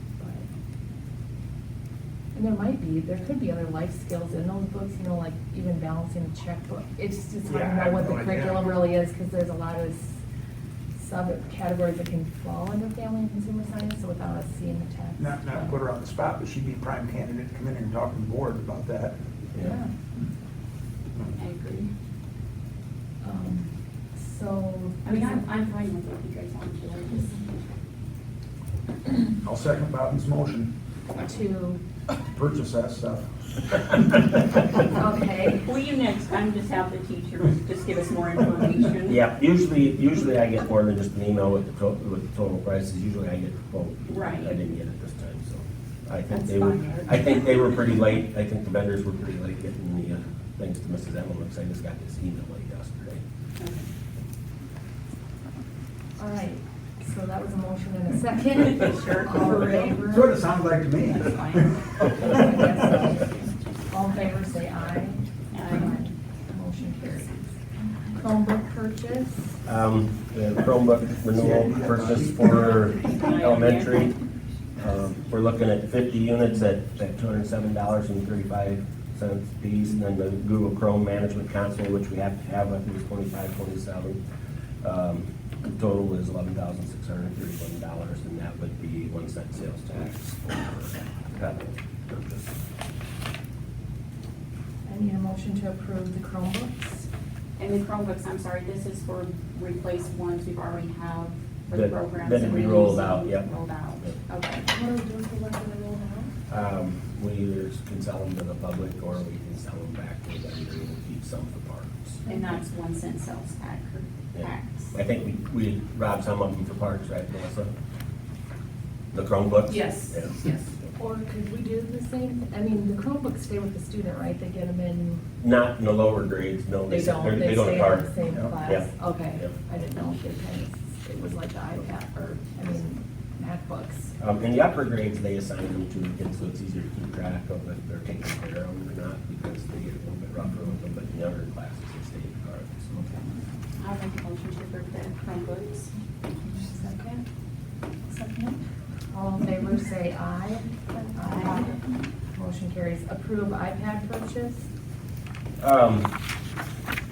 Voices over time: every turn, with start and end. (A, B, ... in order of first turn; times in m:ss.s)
0:00.2-0:00.4 A
0:02.3-0:10.2 A
0:07.4-0:08.7 B
0:11.0-0:15.8 A
0:15.2-0:19.2 B
0:19.5-0:19.9 A
0:21.4-0:21.9 C
0:23.2-0:25.4 A
0:25.0-0:27.4 C
0:29.4-0:30.7 B
0:31.2-0:31.8 A
0:32.2-0:34.6 B
0:34.8-0:35.7 A
0:35.6-0:39.2 C
0:39.0-0:53.2 D
0:44.1-0:44.6 C
0:46.3-0:47.5 C
0:53.6-0:53.8 C
0:56.2-1:00.4 A
0:58.6-1:00.2 C
1:00.0-1:02.6 B
1:01.1-1:01.8 C
1:02.0-1:07.4 A
1:05.5-1:05.9 C
1:08.2-1:09.6 A
1:09.6-1:14.1 D
1:11.3-1:12.8 B
1:12.5-1:14.1 C
1:14.8-1:24.2 D
1:24.8-1:32.6 D
1:34.8-1:37.1 A
1:37.6-1:44.7 C
1:41.7-1:43.5 D
1:44.7-1:46.3 A
1:46.5-1:52.2 D
1:52.2-1:52.5 A
1:52.2-1:54.9 C
1:54.3-1:57.7 D
1:59.1-2:00.4 D
1:59.7-2:00.7 C
2:00.9-2:05.2 A
2:05.4-2:09.5 D
2:06.9-2:14.1 A
2:14.2-2:22.8 D
2:22.9-2:23.4 A
2:23.8-2:25.9 C
2:26.4-2:27.2 A
2:28.1-2:28.6 C
2:29.1-2:31.8 A
2:31.2-2:31.9 C
2:32.3-2:34.7 A
2:35.6-2:36.1 D